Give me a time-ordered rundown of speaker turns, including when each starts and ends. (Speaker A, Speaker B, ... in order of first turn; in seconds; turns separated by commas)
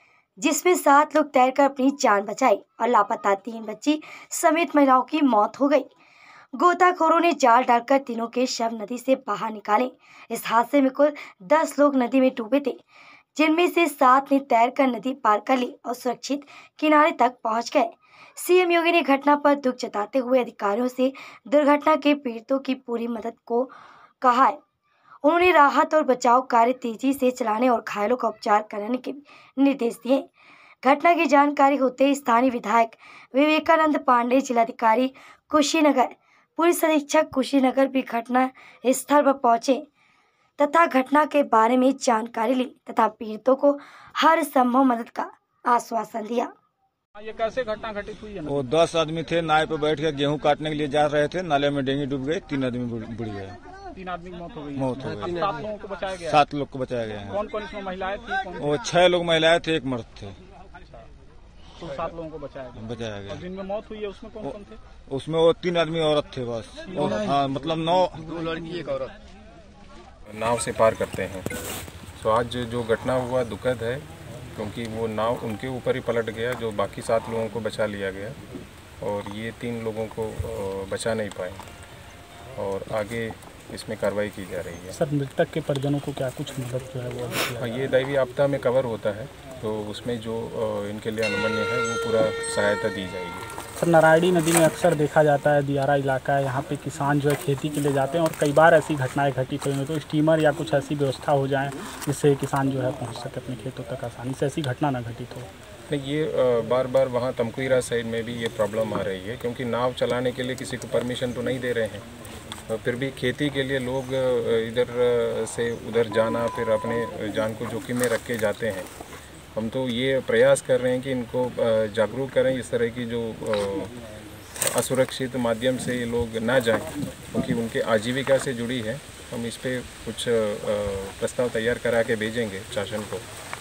Speaker A: 0.4-5.8, Speaker A: 6.5-12.8, Speaker A: 13.3-24.6, Speaker A: 25.2-30.2, Speaker A: 30.8-39.8, Speaker A: 40.6-46.5, Speaker B: 47.5-48.2, Speaker C: 48.5-53.6, Speaker B: 54.0-54.8, Speaker C: 54.7-55.6, Speaker B: 55.4-56.3, Speaker C: 56.2-57.4, Speaker B: 57.4-58.6, Speaker C: 58.6-60.4, Speaker B: 61.8-62.8, Speaker C: 62.7-63.5, Speaker B: 63.4-64.8, Speaker C: 65.1-68.8, Speaker D: 70.3-71.5, Speaker D: 72.2-78.4, Speaker D: 79.0-81.6, Speaker D: 82.5-85.0, Speaker E: 84.9-87.9, Speaker D: 87.6-93.5, Speaker E: 93.8-105.5, Speaker D: 105.9-112.1, Speaker D: 112.7-118.9, Speaker D: 119.5-123.9, Speaker D: 124.7-133.2